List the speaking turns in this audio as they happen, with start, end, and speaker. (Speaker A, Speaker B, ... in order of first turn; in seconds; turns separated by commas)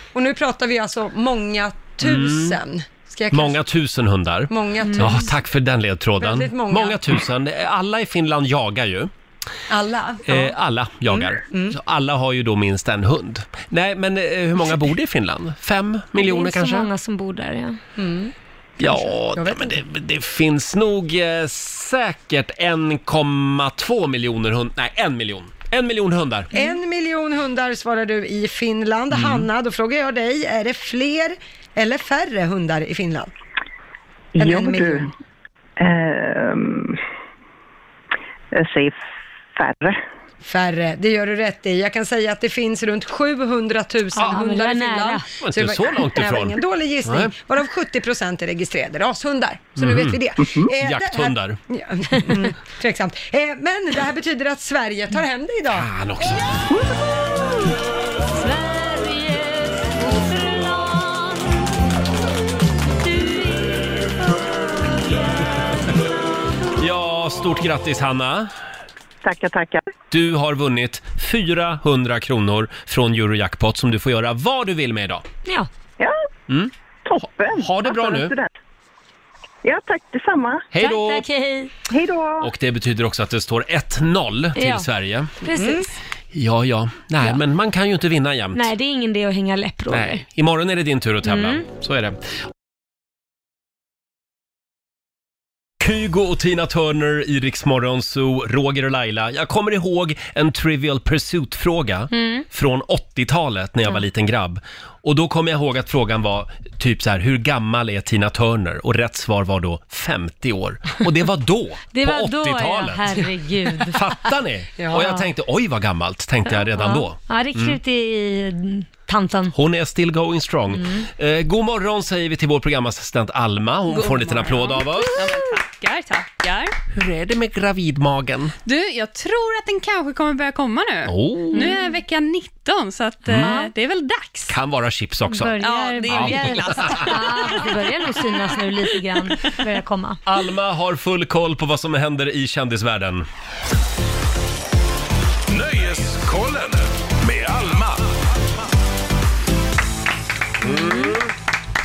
Speaker A: 0.1-3.6, Speaker B: 2.0-2.6, Speaker B: 3.3-9.1, Speaker A: 4.5-5.3, Speaker C: 4.9-5.2, Speaker A: 6.2-7.0, Speaker A: 9.7-10.5, Speaker B: 10.3-16.9, Speaker A: 11.5-11.8, Speaker C: 16.2-17.8, Speaker A: 18.0-18.3, Speaker B: 18.8-26.5, Speaker A: 18.9-19.8, Speaker A: 26.5-33.3, Speaker B: 29.1-29.4, Speaker D: 34.4-35.1, Speaker A: 34.4-35.1, Speaker D: 35.8-37.0, Speaker D: 38.5-39.0, Speaker D: 39.5-40.0, Speaker A: 40.4-55.9, Speaker C: 44.2-45.2, Speaker B: 45.4-47.3, Speaker B: 49.8-50.2, Speaker B: 50.8-51.6, Speaker B: 55.7-56.4, Speaker C: 58.3-61.6, Speaker C: 63.0-64.9, Speaker B: 66.8-68.5, Speaker D: 69.2-69.8, Speaker B: 70.1-75.2, Speaker D: 77.0-78.5, Speaker B: 77.6-78.3, Speaker D: 79.6-80.7, Speaker B: 80.7-81.2, Speaker C: 80.8-81.7, Speaker D: 82.0-82.3, Speaker B: 82.4-85.3, Speaker C: 84.6-84.9, Speaker C: 85.4-85.9, Speaker A: 85.5-85.8, Speaker B: 86.3-88.7, Speaker C: 88.5-90.2, Speaker B: 89.9-92.2, Speaker C: 91.2-91.6, Speaker B: 95.8-113.2, Speaker C: 102.1-102.5, Speaker C: 111.9-114.0, Speaker B: 113.9-117.8, Speaker A: 114.8-115.2, Speaker C: 116.6-119.5, Speaker B: 119.5-125.3, Speaker E: 123.9-126.7, Speaker B: 126.9-128.6, Speaker E: 128.7-134.6, Speaker B: 131.1-131.7, Speaker C: 131.5-131.8, Speaker B: 133.3-133.6, Speaker C: 133.3-133.7, Speaker B: 134.5-137.4, Speaker C: 135.3-140.2, Speaker E: 135.6-137.1, Speaker B: 140.3-143.3, Speaker F: 145.5-148.0, Speaker B: 150.6-151.3, Speaker E: 150.6-151.1